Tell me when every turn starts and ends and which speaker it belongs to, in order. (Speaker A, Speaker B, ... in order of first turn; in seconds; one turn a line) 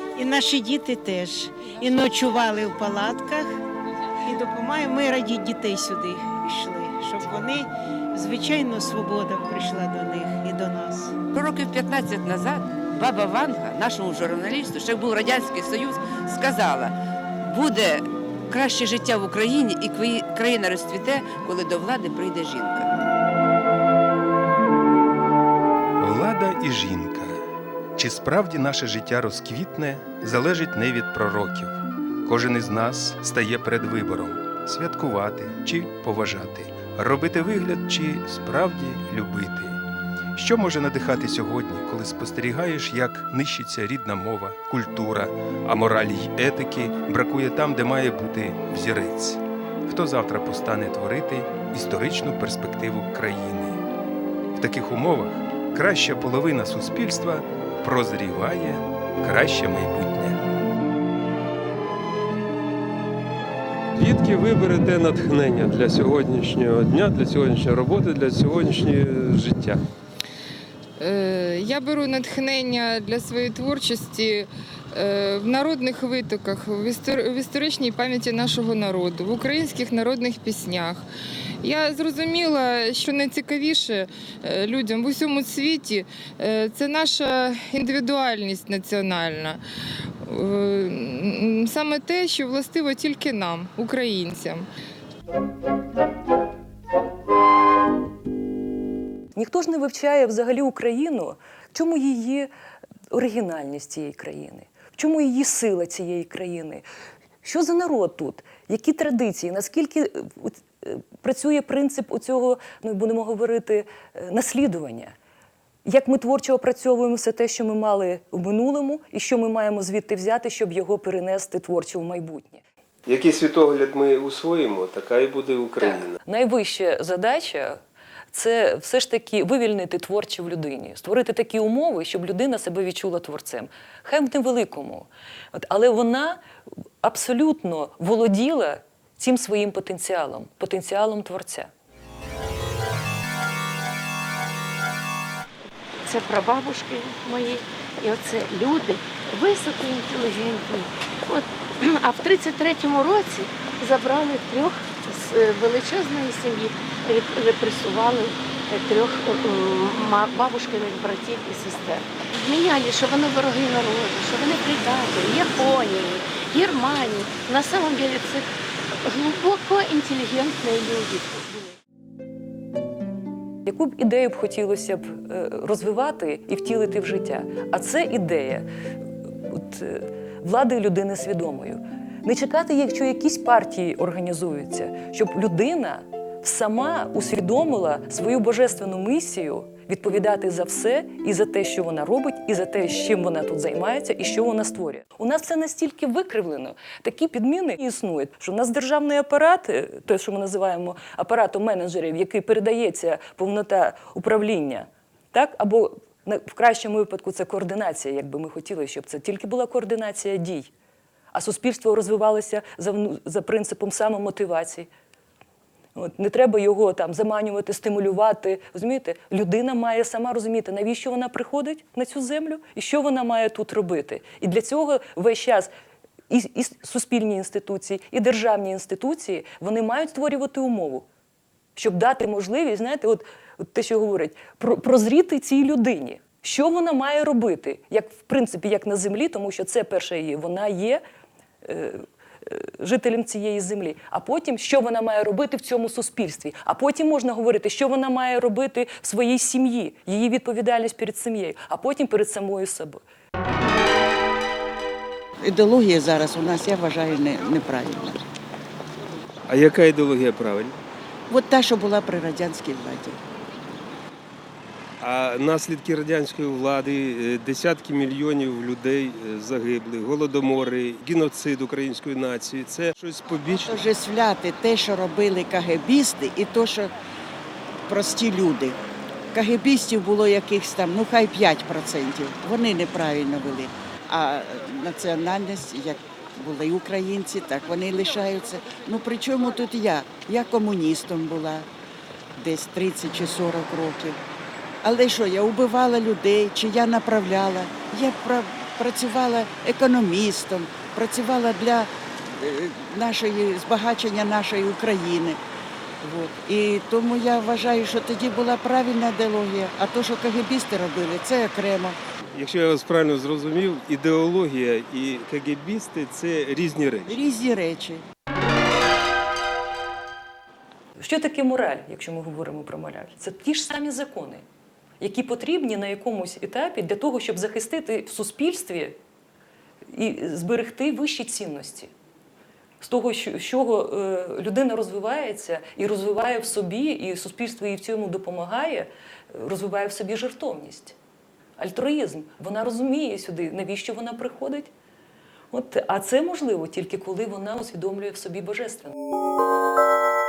Speaker A: 0.1-3.5
Speaker A: 4.2-11.1
Speaker B: 11.3-22.9
Speaker C: 26.0-27.4
Speaker C: 27.9-39.8
Speaker C: 40.3-53.8
Speaker C: 54.5-60.4
Speaker D: 64.0-69.8
Speaker E: 71.0-81.0
Speaker E: 81.6-89.6
Speaker E: 90.2-94.6
Speaker F: 99.3-102.5
Speaker F: 103.1-106.8
Speaker F: 107.4-115.1
Speaker F: 115.8-122.6
Speaker C: 123.0-126.2
Speaker F: 125.8-127.8
Speaker F: 128.3-136.4
Speaker F: 137.0-141.7
Speaker G: 146.0-171.8
Speaker F: 173.7-178.7
Speaker F: 179.5-210.7
Speaker F: 211.3-214.9
Speaker F: 215.9-225.7
Speaker F: 226.3-231.1
Speaker F: 231.8-241.0
Speaker F: 241.6-253.0
Speaker H: 255.4-258.2
Speaker D: 259.5-260.2
Speaker C: 259.7-260.7
Speaker H: 261.3-263.2
Speaker C: 265.0-266.7
Speaker D: 265.1-273.7
Speaker C: 268.8-269.1
Speaker H: 273.7-276.9
Speaker H: 277.9-278.8
Speaker H: 279.3-291.7
Speaker H: 292.4-294.2
Speaker H: 294.8-305.4
Speaker H: 306.0-312.0
Speaker D: 312.3-317.1
Speaker H: 317.1-318.0
Speaker F: 321.0-324.4
Speaker F: 325.0-329.0
Speaker F: 329.9-331.9
Speaker F: 332.8-340.9
Speaker F: 341.6-344.7
Speaker F: 345.5-348.9